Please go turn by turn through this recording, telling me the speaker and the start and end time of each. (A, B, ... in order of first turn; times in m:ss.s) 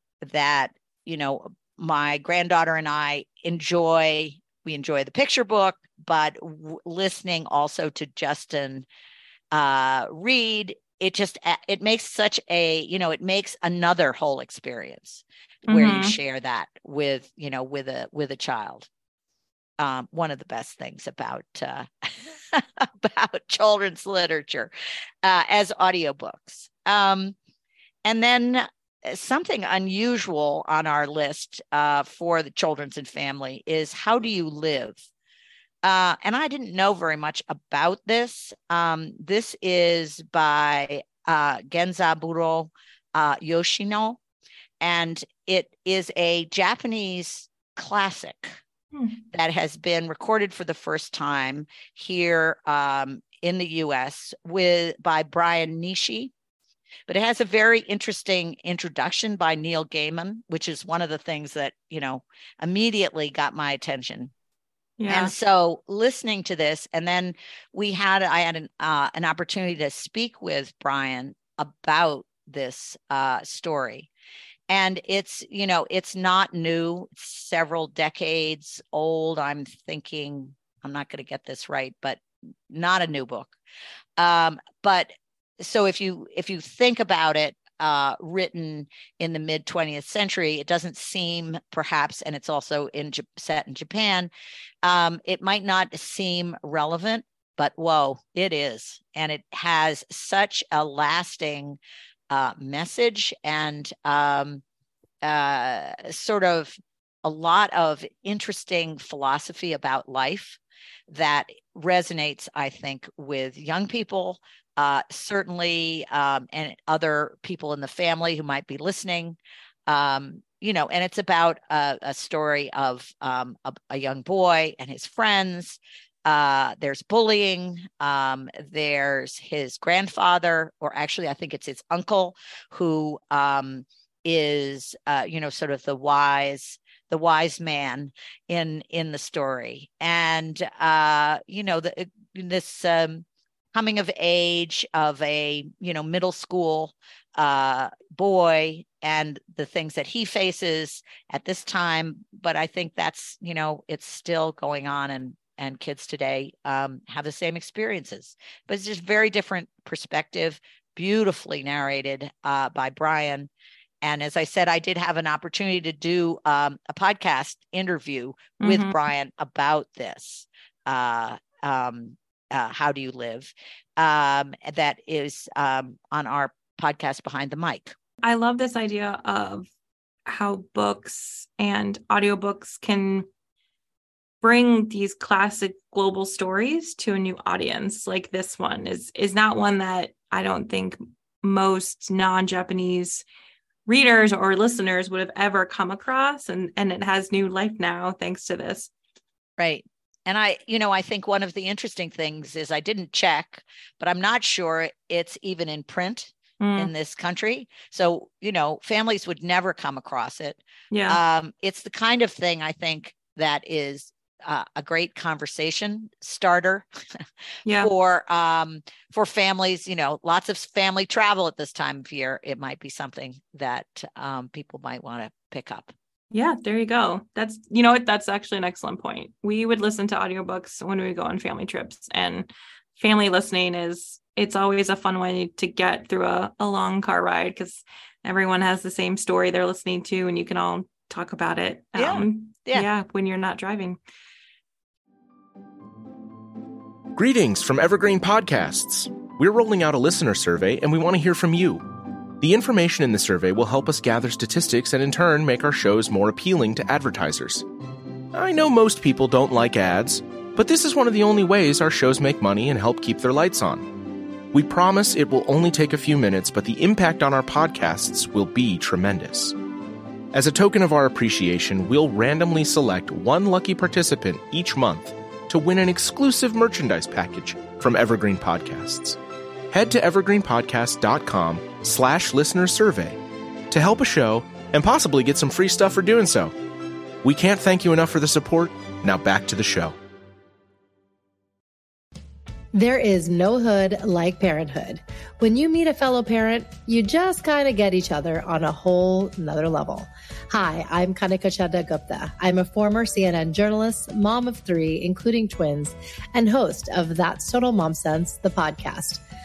0:00.2-0:08.9 A
0:09.5-0:18.9 A
0:15.7-0:16.2 B
0:19.8-0:24.7 A
0:25.2-0:27.4 A
0:28.0-0:35.0 A
0:35.8-0:44.2 A
0:44.8-0:48.6 A
0:48.9-0:49.2 B
0:49.3-0:56.3 A
0:57.1-1:04.3 A
1:05.0-1:05.3 B
1:05.1-1:14.1 A
1:14.7-1:23.6 A
1:24.2-1:34.3 A
1:34.8-1:41.8 A
1:42.3-1:44.6 A
1:45.2-2:43.5 A
2:44.0-2:57.9 A
2:48.6-2:49.0 B
2:58.2-2:59.7 B
3:00.3-3:03.3 B
3:04.4-3:13.2 B
3:13.9-3:18.9 B
3:19.6-3:36.9 A
3:26.6-3:26.9 B
3:30.9-3:31.2 B
3:37.6-3:37.9 B
3:37.7-3:45.9 A
3:46.3-4:04.0 B
4:01.9-4:02.9 A
4:07.1-4:11.8 C
4:12.4-4:17.6 C
4:18.3-4:23.9 C
4:24.5-4:29.5 C
4:30.3-4:39.2 C
4:39.7-4:43.2 C
4:43.7-4:46.5 C
4:47.2-4:49.9 C
4:52.7-5:09.2 D